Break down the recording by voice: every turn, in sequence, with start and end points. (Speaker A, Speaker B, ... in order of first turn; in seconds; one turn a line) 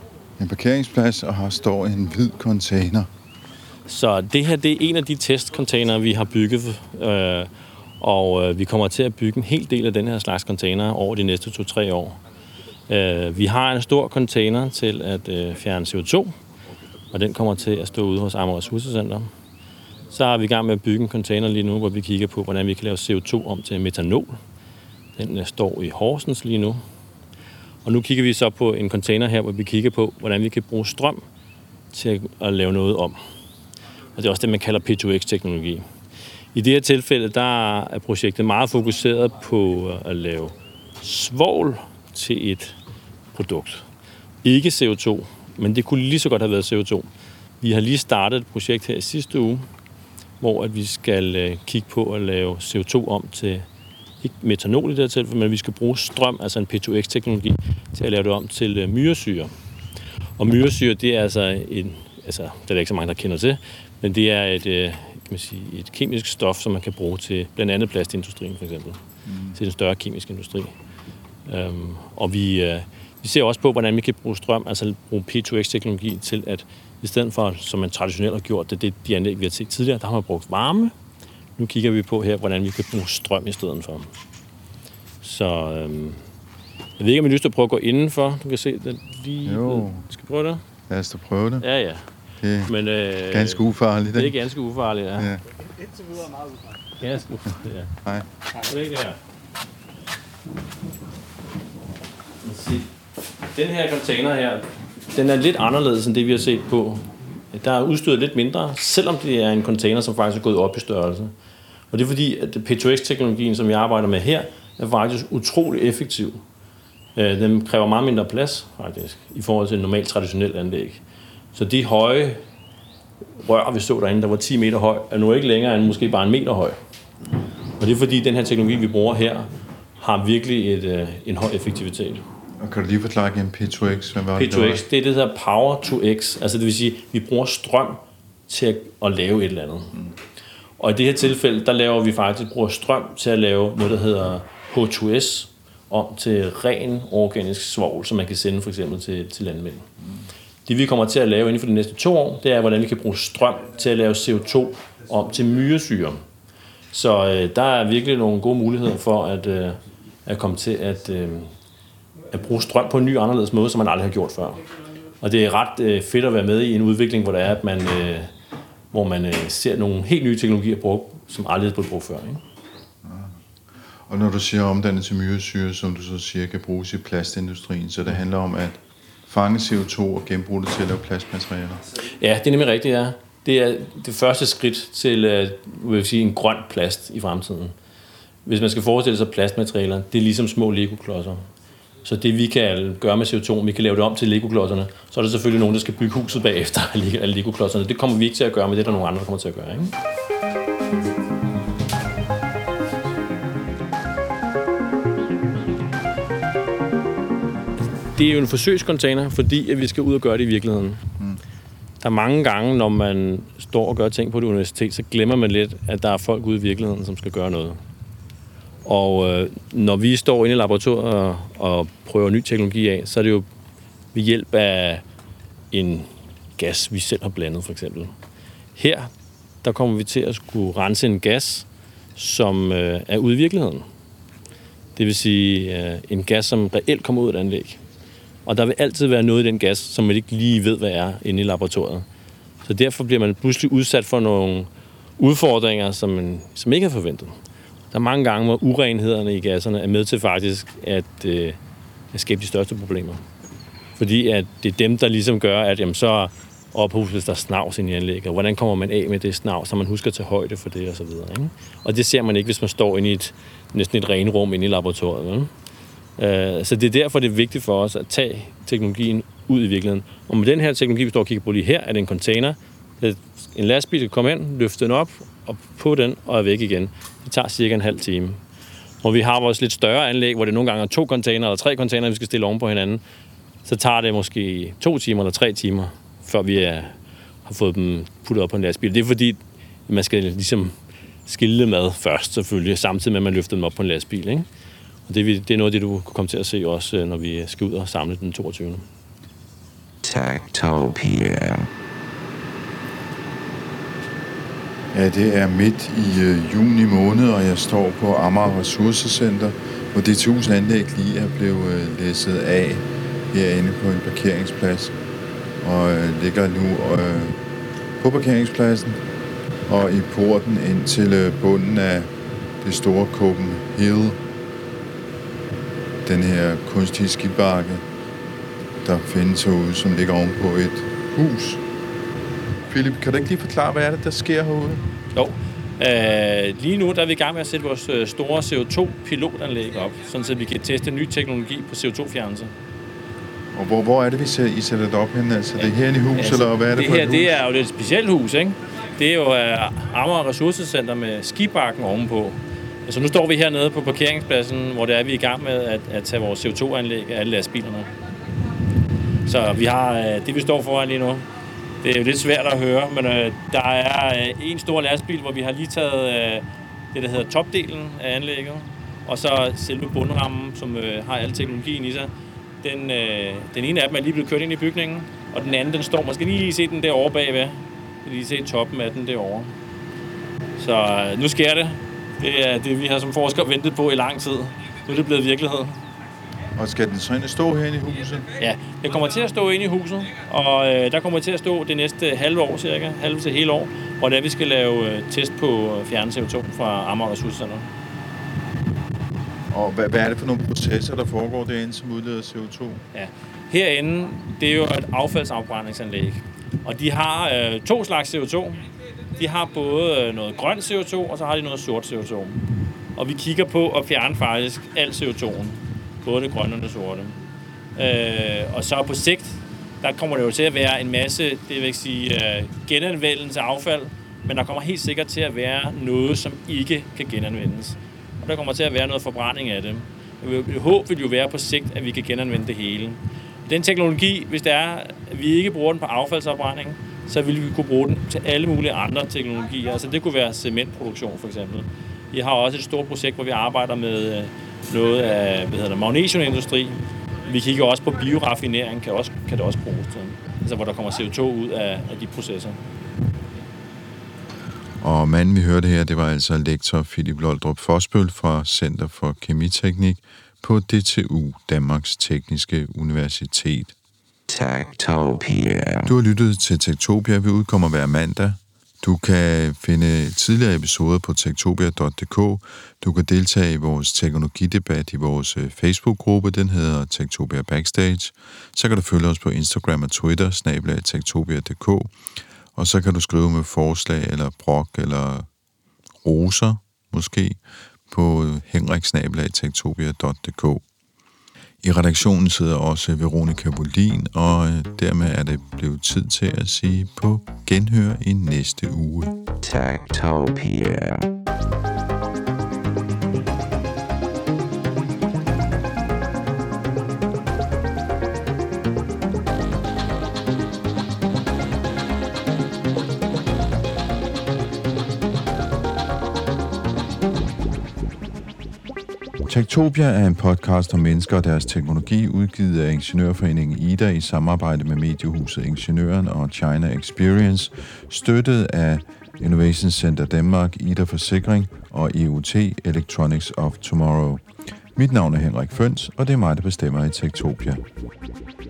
Speaker A: 0.4-3.1
Speaker B: 3.9-12.2
Speaker B: 12.9-16.3
Speaker B: 17.1-19.3
Speaker B: 20.1-24.4
Speaker B: 25.2-26.8
Speaker B: 27.9-31.2
Speaker B: 31.9-33.2
Speaker B: 34.2-35.8
Speaker B: 36.5-42.8
Speaker B: 43.3-43.9
Speaker B: 44.4-47.1
Speaker B: 47.6-49.7
Speaker B: 50.4-53.7
Speaker B: 54.2-59.5
Speaker B: 60.4-69.0
Speaker A: 69.3-69.6
Speaker B: 69.5-70.7
Speaker B: 71.5-80.9
Speaker B: 81.6-84.1
Speaker B: 85.2-86.2
Speaker B: 87.0-90.6
Speaker A: 89.5-90.0
Speaker A: 90.9-91.7
Speaker B: 91.6-92.1
Speaker A: 92.4-92.7
Speaker B: 92.7-95.3
Speaker A: 93.3-94.4
Speaker B: 97.0-97.9
Speaker B: 98.5-99.2
Speaker B: 102.4-102.9
Speaker B: 103.5-111.3
Speaker B: 111.9-116.4
Speaker B: 117.2-121.0
Speaker B: 121.5-122.4
Speaker B: 123.4-126.8
Speaker B: 127.8-129.5
Speaker B: 130.0-132.2
Speaker A: 132.6-134.8
Speaker B: 134.3-140.0
Speaker B: 140.8-149.9
Speaker B: 150.7-156.2
Speaker B: 156.9-161.5
Speaker B: 162.3-164.6
Speaker B: 165.2-168.3
Speaker B: 168.9-172.4
Speaker A: 173.0-173.3
Speaker A: 174.1-181.8
Speaker B: 182.0-187.7
Speaker B: 188.5-191.4
Speaker B: 192.0-199.9
Speaker B: 208.2-211.1
Speaker B: 212.0-217.8
Speaker B: 218.8-223.5
Speaker B: 224.1-225.0
Speaker B: 225.7-228.1
Speaker B: 228.8-229.1
Speaker B: 229.6-233.8
Speaker B: 235.0-237.8
Speaker B: 238.5-242.1
Speaker B: 242.6-247.3
Speaker B: 247.9-251.6
Speaker B: 252.1-253.2
Speaker B: 254.0-265.5
Speaker B: 266.2-278.4
Speaker B: 279.0-283.0
Speaker B: 283.6-286.9
Speaker B: 287.4-290.8
Speaker B: 291.3-294.5
Speaker B: 295.1-298.9
Speaker C: 300.0-301.7
Speaker A: 304.9-314.9
Speaker A: 315.6-317.4
Speaker A: 318.0-319.0
Speaker A: 319.7-324.2
Speaker A: 326.0-327.8
Speaker A: 328.8-331.6
Speaker A: 332.7-334.8
Speaker B: 335.1-342.5
Speaker A: 343.5-347.4
Speaker B: 346.1-357.9
Speaker B: 359.3-361.2
Speaker B: 361.8-372.1
Speaker B: 372.6-379.5
Speaker B: 380.6-385.8
Speaker A: 386.6-388.3
Speaker B: 388.4-397.7
Speaker A: 399.5-402.8
Speaker B: 402.9-412.4
Speaker B: 413.0-417.2
Speaker B: 417.8-452.6
Speaker A: 454.8-463.7
Speaker C: 464.3-465.9
Speaker A: 465.9-481.9
Speaker A: 482.6-485.3
Speaker A: 486.0-490.6
Speaker A: 491.6-499.2
Speaker C: 499.4-501.1
Speaker A: 519.3-534.2
Speaker A: 534.8-537.6